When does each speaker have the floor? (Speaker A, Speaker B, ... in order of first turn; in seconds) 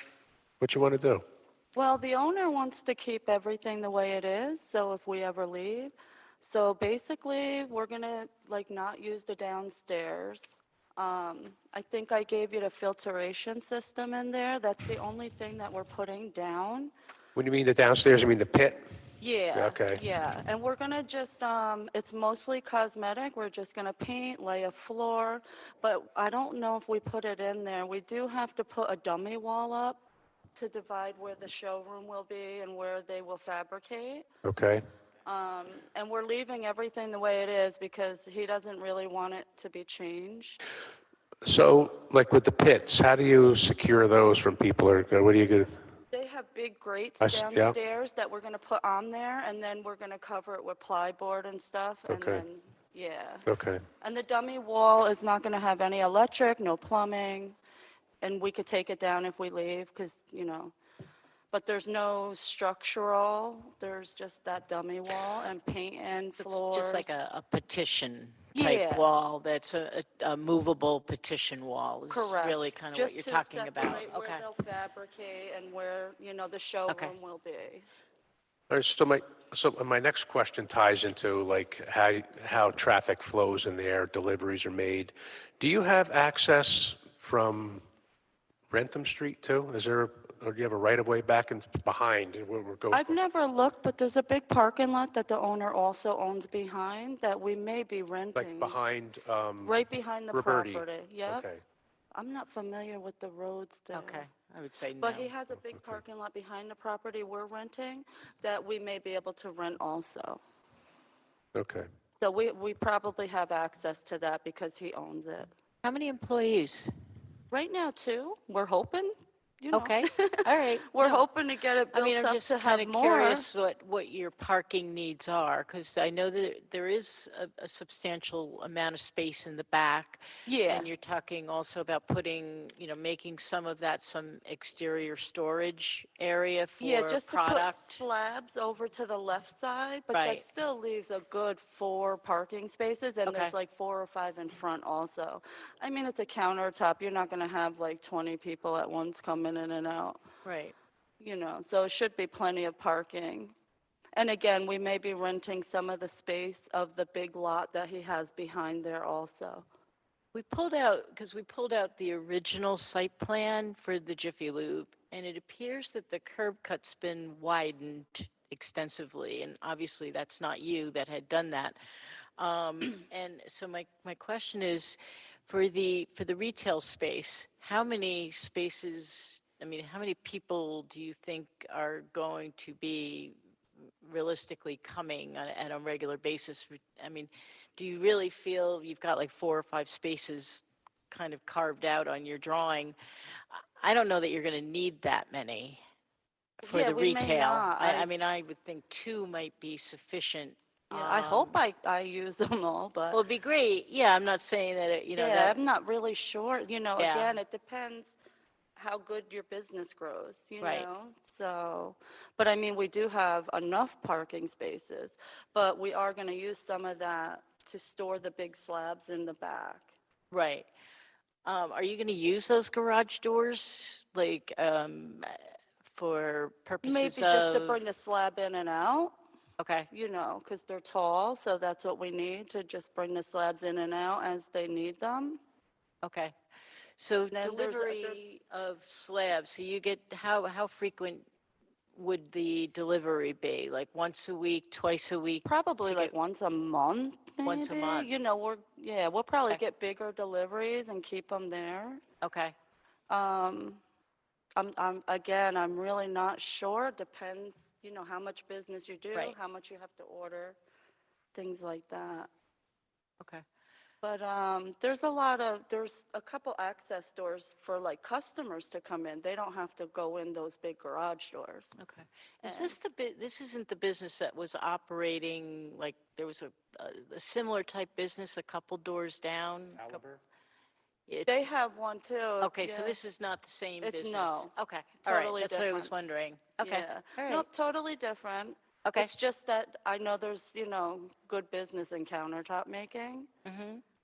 Speaker A: 0.6-1.2, 17.3-18.8, 19.5-20.0, 34.4-34.8, 41.4-45.8, 47.2-47.7, 52.1-52.4, 53.5-53.8, 78.7-87.8, 88.7-93.2, 98.3-101.6, 105.7-106.0, 111.5-111.9
Speaker B: 1.8-16.9, 19.2-30.0, 30.5-34.2, 35.2-40.6, 46.1-53.4, 54.0-57.6, 58.2-60.7, 61.5-67.2, 68.5-69.0, 72.1-77.9, 92.9-98.8, 99.6-101.5, 102.1-104.2, 105.0-110.4, 112.2-115.5, 117.5-120.3, 120.9-123.5, 130.4-130.9, 136.8-150.2, 151.2-153.5, 154.2-159.6, 196.6-198.1, 200.9-203.2, 205.2-208.1, 208.8-219.9, 226.8-229.1, 229.9-235.4, 237.3-238.2, 245.4-252.0, 253.1-253.8, 254.6-260.6, 261.3-262.3, 264.0-271.7, 272.4-272.8, 281.3-283.0, 283.8-284.5, 285.0-285.9, 286.6-293.3
Speaker C: 66.4-74.5, 76.9-77.1, 103.9-105.3, 115.8-116.9, 119.7-121.2, 121.9-138.0, 140.1-140.4, 143.2-143.5, 150.4-150.7, 160.3-171.8, 172.4-183.4, 184.0-192.9, 193.5-195.8, 196.6-201.6, 203.1-205.6, 207.0-207.4, 210.6-210.9, 220.3-220.7, 221.4-227.8, 229.6-229.9, 236.0-236.3, 237.0-241.2, 241.9-246.1, 247.4-248.1, 252.2-252.5, 271.8-280.0, 281.1-281.5, 282.4-287.5, 288.9-289.1, 293.4-293.8